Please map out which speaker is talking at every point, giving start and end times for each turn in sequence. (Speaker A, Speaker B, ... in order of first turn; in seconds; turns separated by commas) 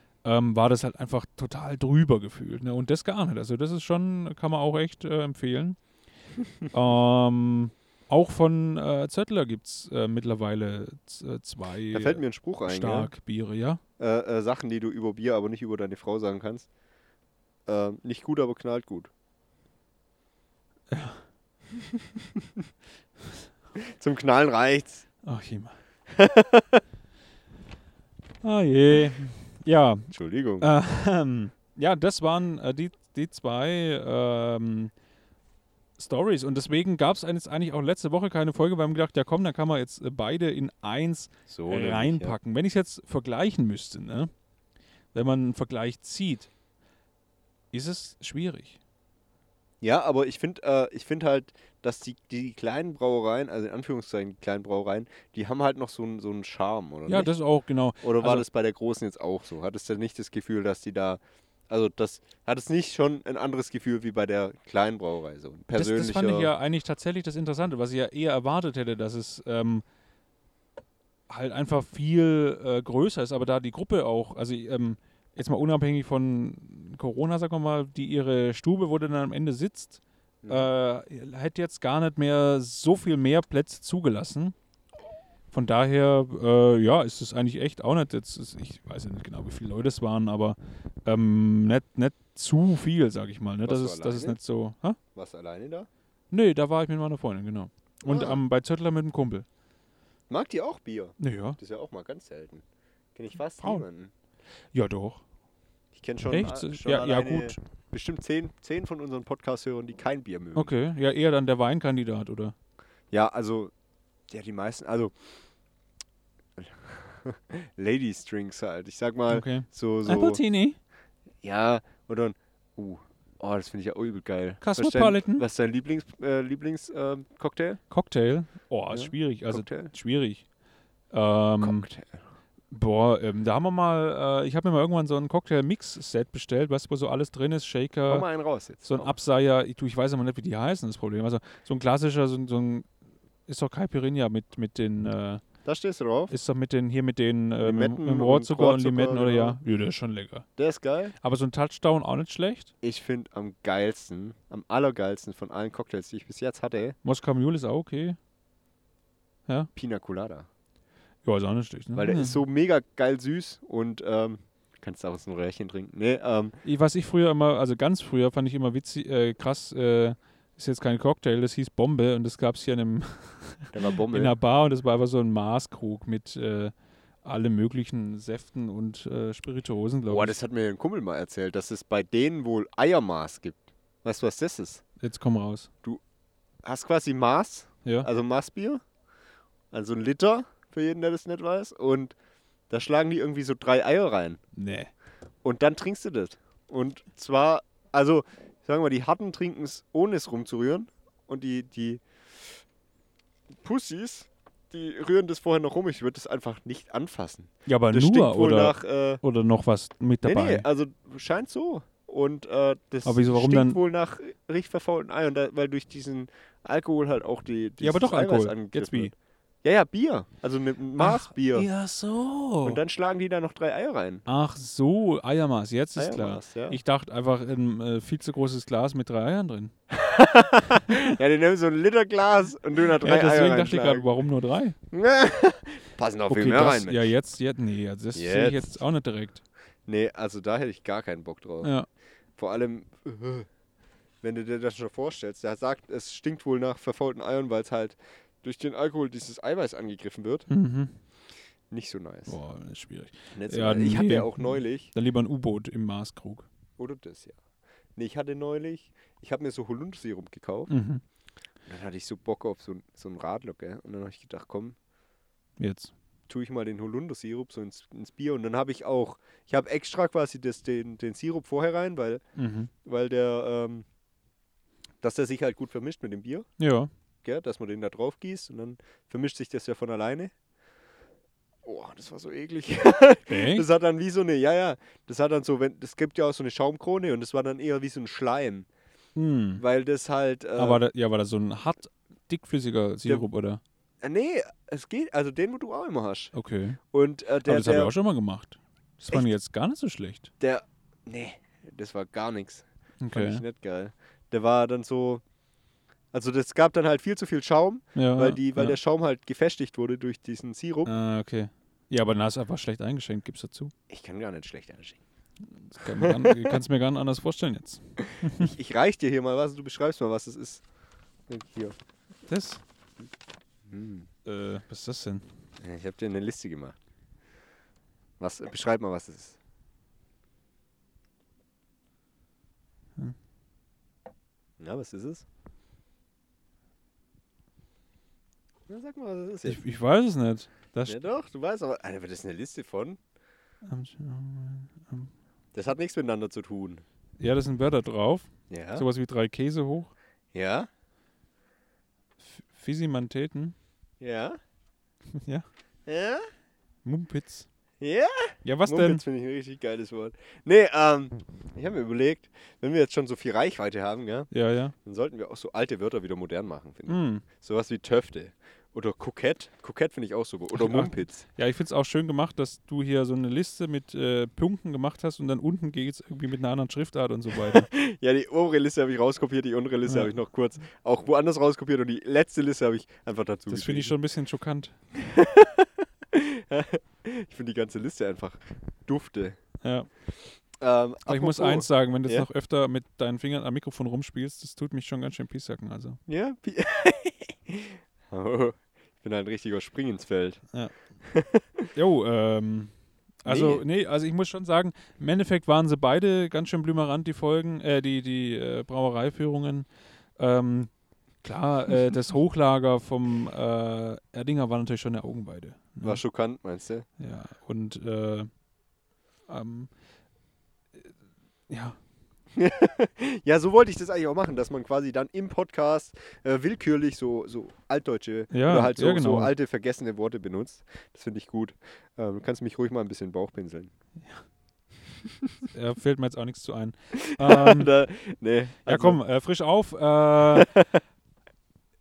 Speaker A: 0.2-5.8, Speaker A: 6.7-13.8, Speaker B: 11.9-13.1, Speaker B: 14.0-16.7, Speaker B: 17.7-19.1, Speaker A: 20.9-21.2, Speaker B: 22.2-22.4, Speaker B: 23.8-25.1, Speaker A: 25.2-25.7, Speaker B: 26.1-26.8, Speaker A: 28.4-30.1, Speaker B: 30.1-30.7, Speaker A: 30.6-34.9, Speaker A: 36.0-44.3, Speaker B: 41.5-42.4, Speaker A: 45.1-46.5, Speaker A: 47.7-48.8, Speaker B: 49.8-57.3, Speaker A: 57.1-58.5, Speaker B: 58.0-66.5, Speaker A: 65.7-69.8, Speaker A: 71.3-84.5, Speaker B: 80.4-80.7, Speaker A: 85.5-95.0, Speaker B: 93.6-94.4, Speaker B: 95.2-95.9, Speaker A: 96.3-99.5, Speaker B: 98.0-98.4, Speaker B: 100.3-102.6, Speaker A: 101.2-101.6, Speaker B: 103.2-104.1, Speaker A: 104.7-105.2, Speaker B: 106.0-110.7, Speaker A: 106.3-107.6, Speaker A: 110.5-112.5, Speaker B: 113.1-113.7, Speaker B: 114.3-115.1, Speaker B: 116.6-120.4, Speaker A: 119.3-120.8, Speaker B: 121.4-127.8, Speaker A: 124.6-125.5, Speaker A: 127.9-130.4, Speaker B: 128.9-129.9, Speaker A: 131.1-131.9, Speaker B: 131.6-132.2, Speaker A: 132.7-138.3, Speaker B: 138.1-139.2, Speaker A: 138.8-142.9, Speaker A: 143.5-145.4, Speaker B: 145.7-146.3, Speaker A: 146.3-150.5, Speaker B: 147.6-149.6, Speaker B: 150.6-151.2, Speaker A: 151.2-152.7, Speaker B: 152.8-157.0, Speaker A: 157.0-158.2, Speaker B: 159.8-160.5, Speaker A: 161.2-162.4, Speaker B: 161.9-166.6, Speaker A: 166.6-176.7, Speaker B: 173.7-174.3, Speaker A: 177.2-180.4, Speaker B: 180.1-184.8, Speaker A: 185.0-185.7, Speaker B: 186.6-188.8, Speaker B: 189.7-192.2, Speaker B: 192.7-194.4, Speaker A: 194.6-194.9, Speaker B: 195.4-202.0, Speaker B: 203.6-209.2, Speaker A: 207.7-210.7, Speaker B: 210.2-219.1, Speaker A: 213.1-213.8, Speaker A: 217.8-219.1, Speaker B: 219.6-221.7, Speaker A: 221.0-222.8, Speaker B: 222.6-224.2, Speaker A: 224.3-229.7, Speaker B: 226.0-226.8, Speaker B: 229.9-234.1, Speaker A: 233.0-234.8, Speaker B: 234.9-237.1, Speaker A: 236.3-239.4, Speaker B: 238.1-238.8, Speaker B: 239.9-241.7, Speaker B: 242.4-243.5, Speaker B: 244.2-250.5, Speaker A: 250.5-251.0, Speaker B: 251.7-252.4, Speaker A: 252.3-256.5, Speaker B: 253.3-254.9, Speaker B: 256.8-257.4, Speaker B: 258.0-260.7, Speaker A: 260.7-261.0, Speaker B: 261.7-264.8, Speaker A: 265.6-265.9, Speaker B: 266.3-272.2, Speaker A: 272.4-272.7, Speaker B: 272.9-273.9, Speaker B: 275.0-276.5, Speaker A: 276.6-276.9, Speaker B: 277.2-280.3, Speaker B: 281.6-288.7, Speaker A: 283.3-283.7, Speaker A: 289.1-289.6, Speaker B: 289.6-290.8, Speaker A: 290.6-293.6, Speaker B: 294.0-296.3, Speaker A: 296.3-296.8, Speaker B: 296.9-297.9, Speaker A: 297.4-300.3, Speaker B: 300.4-305.2, Speaker A: 303.0-303.4, Speaker B: 306.1-310.9, Speaker A: 307.9-308.8, Speaker A: 310.9-313.7, Speaker B: 313.9-315.0, Speaker A: 315.6-318.5, Speaker B: 315.9-316.6, Speaker B: 318.0-320.6, Speaker B: 321.3-321.8, Speaker A: 322.3-322.6, Speaker B: 323.7-324.1, Speaker A: 324.3-325.2, Speaker B: 325.6-326.8, Speaker B: 328.2-329.4, Speaker B: 334.6-335.2, Speaker B: 338.7-339.6, Speaker A: 339.4-341.0, Speaker B: 340.9-343.0, Speaker A: 343.6-345.1, Speaker B: 345.5-346.8, Speaker A: 347.2-349.9, Speaker B: 348.5-348.9, Speaker B: 350.3-350.7, Speaker A: 352.2-353.6, Speaker B: 354.0-354.4, Speaker A: 355.1-355.5, Speaker B: 355.9-356.2, Speaker A: 356.9-357.5, Speaker B: 357.8-364.3, Speaker A: 358.4-359.0, Speaker A: 364.3-364.7, Speaker B: 364.8-371.2, Speaker A: 366.9-367.2, Speaker A: 370.5-377.7, Speaker B: 377.3-383.9, Speaker A: 379.9-380.1, Speaker A: 383.5-384.8, Speaker B: 384.9-389.4, Speaker A: 389.6-389.9, Speaker B: 390.6-392.3, Speaker A: 391.1-396.0, Speaker B: 396.1-400.4, Speaker B: 401.0-401.7, Speaker A: 401.8-410.7, Speaker B: 403.3-403.6, Speaker A: 411.2-416.0, Speaker B: 415.8-416.9, Speaker A: 417.0-418.3, Speaker A: 419.3-419.7, Speaker A: 421.5-421.8, Speaker B: 422.3-433.7, Speaker A: 428.3-429.3, Speaker A: 435.5-437.7, Speaker B: 436.9-439.0, Speaker A: 438.7-440.5, Speaker B: 440.4-440.8